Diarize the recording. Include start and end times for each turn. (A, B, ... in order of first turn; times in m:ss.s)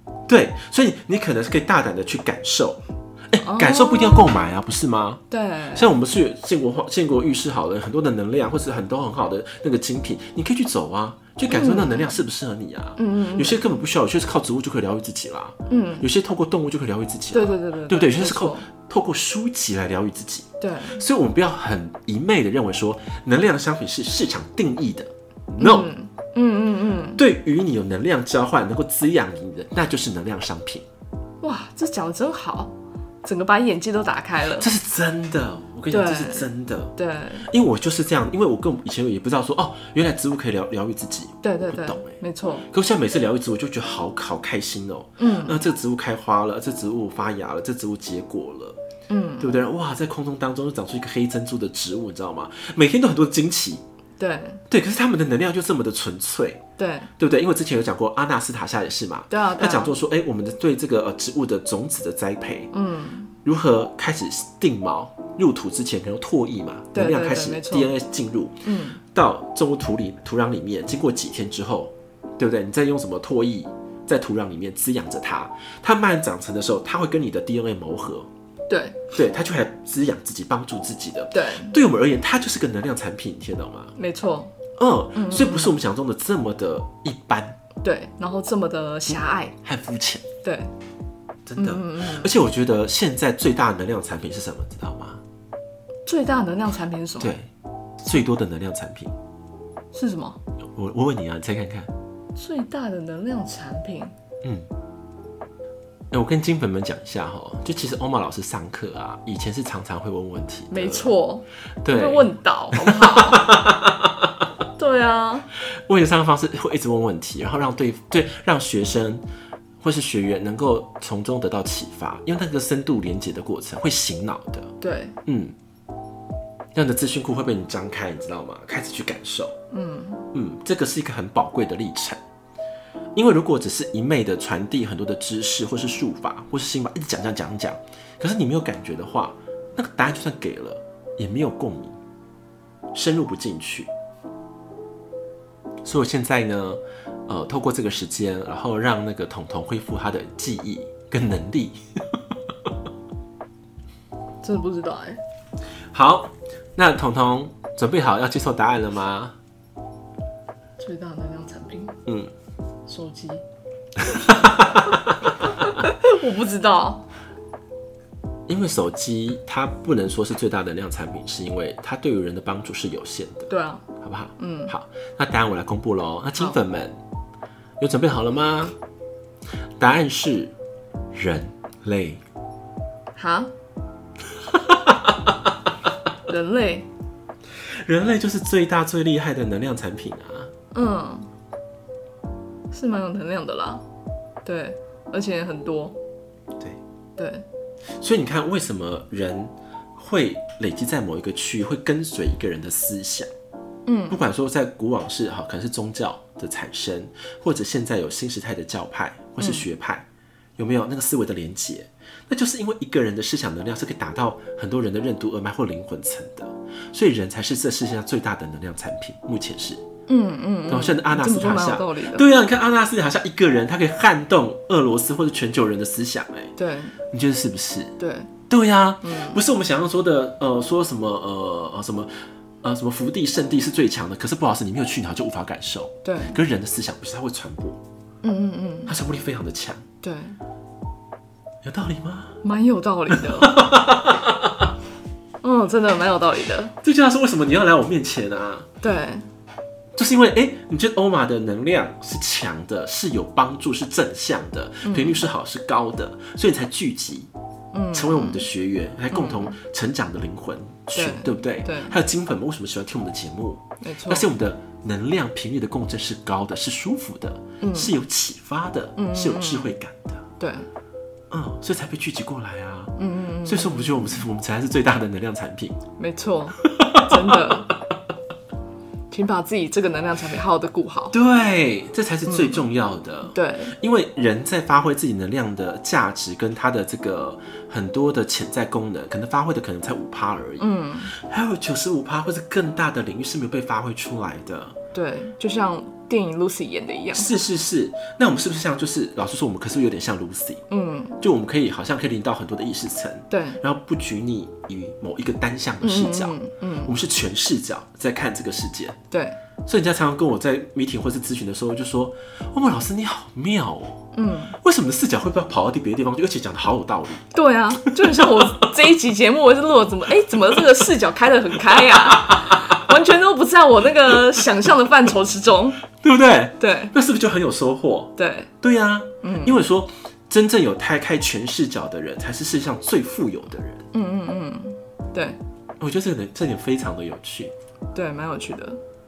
0:00.3-0:05.2 A
0:03.4-0:04.3 B
0:05.3-0:05.9 B
0:05.7-0:25.9 A
0:11.5-0:12.1 B
0:13.0-0:13.6 B
0:15.7-0:16.0 B
0:17.3-0:18.6 B
0:20.6-0:21.0 B
0:25.6-0:27.2 B
0:27.2-0:30.8 A
0:31.4-0:32.7 B
0:33.2-0:34.7 B
0:34.6-0:36.9 A
0:35.9-0:37.5 B
0:37.5-0:48.8 A
0:41.4-0:42.7 B
0:45.2-0:45.6 B
0:49.1-0:49.5 B
0:49.4-0:53.8 A
0:54.2-0:54.6 B
0:54.7-0:56.6 A
0:56.8-0:57.1 B
0:57.2-1:02.7 A
0:59.3-0:59.9 B
1:02.7-1:03.3 B
1:03.4-1:18.3 A
1:06.9-1:07.9 B
1:08.6-1:09.0 B
1:18.7-1:19.0 B
1:19.1-1:23.9 A
1:21.3-1:21.7 B
1:24.0-1:24.5 B
1:24.8-1:27.6 A
1:25.1-1:25.7 B
1:27.8-1:29.5 B
1:29.6-1:30.2 A
1:30.4-1:30.7 B
1:31.4-1:35.2 A
1:31.6-1:32.3 B
1:36.0-1:37.3 B
1:37.2-1:37.5 A
1:38.0-1:39.1 A
1:39.9-1:40.4 B
1:40.6-1:41.9 A
1:42.3-1:44.1 B
1:44.4-1:44.7 A
1:46.1-1:51.1 A
1:50.7-1:53.5 B
1:51.8-1:54.5 A
1:54.8-1:55.5 B
1:55.7-1:59.2 A
1:59.8-2:04.7 A
2:04.8-2:05.2 B
2:05.2-2:05.5 A
2:06.7-2:09.5 A
2:09.7-2:10.2 B
2:10.3-2:12.2 A
2:13.1-2:22.0 A
2:22.9-2:23.9 A
2:25.8-2:32.2 A
2:34.4-2:35.2 B
2:35.9-2:39.4 A
2:40.8-2:42.0 B
2:42.9-2:43.4 B
2:44.0-2:45.7 A
2:45.4-2:47.0 B
2:48.5-2:53.5 A
2:53.5-2:53.8 B
2:54.0-2:57.0 A
2:54.4-2:54.7 B
2:57.8-2:58.7 A
2:59.8-3:00.5 A
3:01.1-3:02.2 A
3:03.1-3:03.5 B
3:04.5-3:05.5 A
3:06.3-3:06.9 B
3:07.6-3:10.5 A
3:10.7-3:11.3 B
3:12.7-3:13.8 B
3:14.4-3:16.0 B
3:17.2-3:17.4 B
3:18.0-3:23.3 A
3:23.8-3:24.2 B
3:24.1-3:30.0 A
3:29.4-3:29.6 B
3:30.6-3:39.8 A
3:40.1-3:42.2 B
3:40.7-3:46.5 A
3:46.6-3:47.0 B
3:47.1-3:47.9 A
3:48.0-3:48.3 B
3:48.5-3:57.8 A
3:49.0-3:49.4 B
3:56.0-3:56.4 B
3:58.2-3:58.9 B
3:58.8-3:59.8 A
4:00.0-4:00.4 B
4:01.6-4:02.4 A
4:02.4-4:03.7 B
4:03.1-4:04.7 A
4:05.4-4:06.7 B
4:06.8-4:08.7 A
4:08.8-4:09.3 B
4:10.0-4:17.3 A
4:14.8-4:15.2 B
4:17.7-4:18.4 B
4:17.9-4:30.2 A
4:19.1-4:19.6 B
4:20.9-4:22.0 B
4:23.8-4:24.3 B
4:27.6-4:27.9 B
4:29.0-4:29.7 B
4:30.4-4:30.7 B
4:31.3-4:35.8 A
4:33.0-4:34.2 B
4:36.0-4:37.7 B
4:36.6-4:37.8 A
4:39.1-4:41.1 B
4:41.1-4:54.8 A
4:42.2-4:42.7 B
4:43.3-4:43.8 B
4:50.6-4:51.1 B
4:54.9-4:57.3 B
4:57.1-5:00.6 A
5:00.7-5:01.2 B
5:01.2-5:09.0 A
5:03.3-5:03.6 B
5:05.8-5:06.9 B
5:09.1-5:09.4 B
5:09.6-5:14.0 A
5:14.1-5:14.6 B
5:14.6-5:17.2 A
5:17.3-5:25.8 B
5:17.8-5:18.6 A
5:21.6-5:22.9 A
5:24.1-5:24.4 A
5:25.9-5:33.9 A
5:26.6-5:26.9 B
5:28.2-5:28.5 B
5:29.2-5:29.6 B
5:33.9-5:35.4 B
5:35.8-5:37.5 A
5:37.9-5:38.8 B